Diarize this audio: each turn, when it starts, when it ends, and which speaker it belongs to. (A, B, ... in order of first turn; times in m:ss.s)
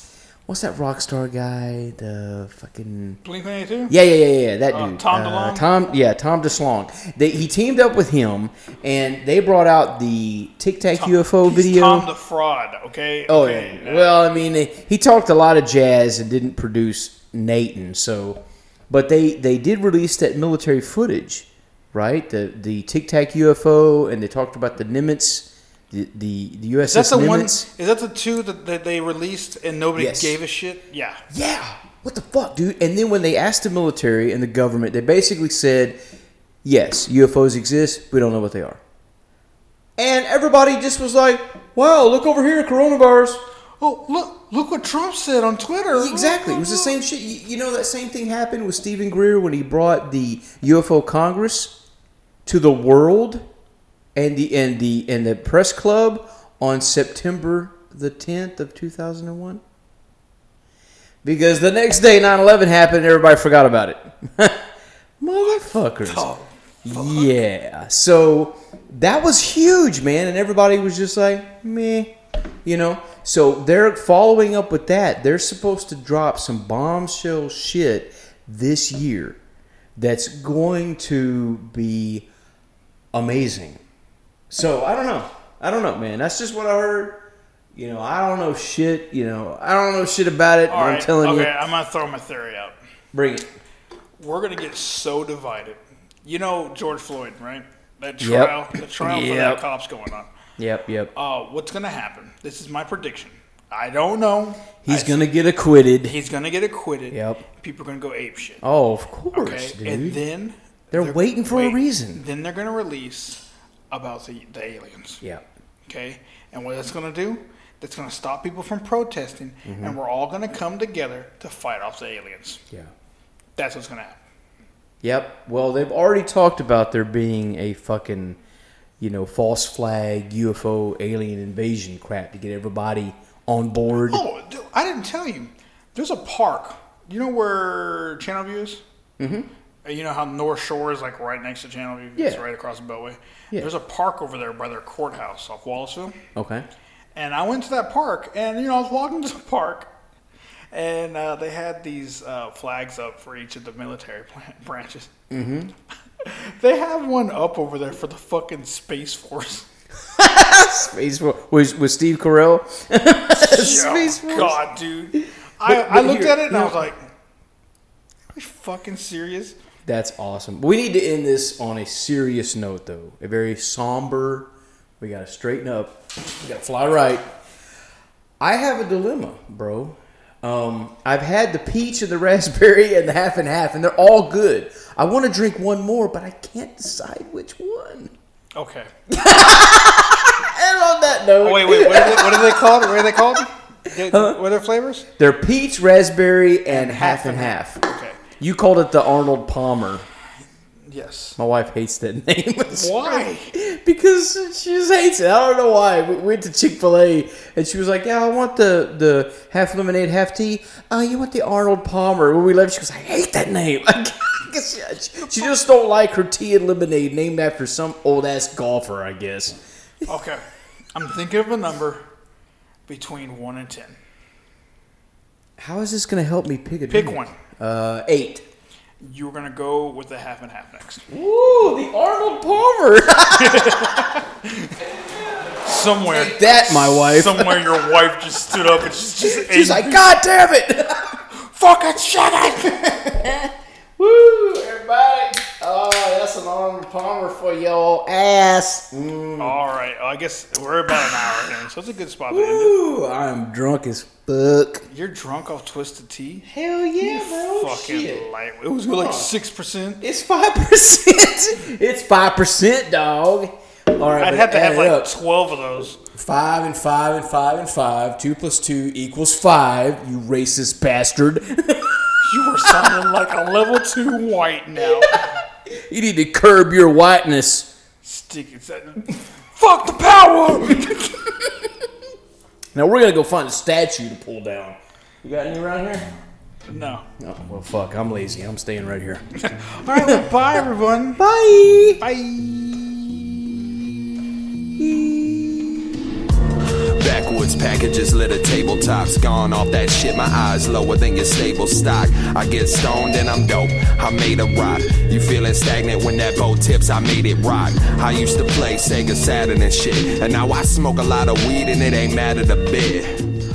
0:00.5-0:03.2 A
0:03.2-0:03.9 B
0:03.9-0:12.1 A
0:04.7-0:05.6 B
0:10.9-0:14.1 B
0:13.3-0:27.7 A
0:26.8-0:31.2 B
0:30.0-0:30.4 A
0:31.3-0:36.0 A
0:36.6-0:38.8 A
0:40.0-0:43.4 A
0:43.8-0:47.0 B
0:45.9-0:51.8 A
0:52.4-0:53.5 A
0:54.2-0:59.6 A
1:01.2-1:04.7 A
1:05.2-1:06.3 A
1:06.0-1:07.4 B
1:06.8-1:19.4 A
1:20.0-1:22.3 A
1:23.1-1:23.8 A
1:24.5-1:27.2 A
1:27.8-1:31.5 A
1:30.7-1:32.8 B
1:33.1-1:33.5 A
1:34.2-1:40.3 B
1:38.2-1:39.6 A
1:40.6-1:41.1 A
1:41.1-1:45.2 B
1:44.8-1:46.2 A
1:46.0-1:48.6 B
1:47.1-1:47.4 A
1:48.6-1:50.2 A
1:49.3-1:55.2 B
1:50.9-1:52.2 A
1:55.2-1:55.5 A
1:55.9-2:02.6 B
1:59.6-2:00.0 A
2:03.6-2:04.2 B
2:05.0-2:08.4 A
2:09.0-2:14.2 A
2:14.1-2:18.8 B
2:19.2-2:19.5 A
2:19.8-2:26.2 B
2:26.4-2:26.6 A
2:27.2-2:29.9 B
2:30.7-2:35.1 B
2:35.3-2:35.7 A
2:36.2-2:39.7 B
2:40.1-2:44.6 A
2:43.3-2:47.0 B
2:45.2-2:46.8 A
2:48.3-2:49.6 B
2:49.8-2:57.2 A
2:58.4-3:08.1 A
3:08.6-3:08.9 B
3:09.1-3:13.2 A
3:11.4-3:15.1 B
3:14.1-3:14.4 A
3:15.2-3:17.8 A
3:16.7-3:18.2 B
3:18.4-3:20.0 A
3:20.8-3:21.4 B
3:21.4-3:40.1 A
3:22.6-3:23.5 B
3:40.1-3:40.4 B
3:41.0-3:42.0 B
3:42.9-3:44.0 B
3:45.6-3:48.4 A
3:46.9-3:47.4 B
3:49.0-3:51.0 B
3:51.1-3:54.1 A
3:53.3-3:54.8 B
3:55.6-4:00.1 B
3:56.1-3:57.8 A
3:59.2-4:01.2 A
4:01.3-4:02.8 B
4:02.6-4:09.6 A
4:09.4-4:12.8 B
4:12.3-4:14.9 A
4:14.9-4:16.5 B
4:16.4-4:18.3 A
4:17.0-4:20.0 B
4:18.9-4:19.3 A
4:20.0-4:25.1 A
4:24.2-4:26.0 B
4:26.1-4:32.2 A
4:32.2-4:35.4 B
4:35.0-4:37.7 A
4:38.0-4:41.3 B
4:42.7-4:46.1 A
4:46.7-4:47.1 B
4:47.2-4:49.3 A
4:49.4-4:51.2 B
4:49.9-4:50.3 A
4:51.2-4:52.0 A
4:52.0-4:52.6 B
4:54.8-4:55.9 A
4:56.7-5:13.3 C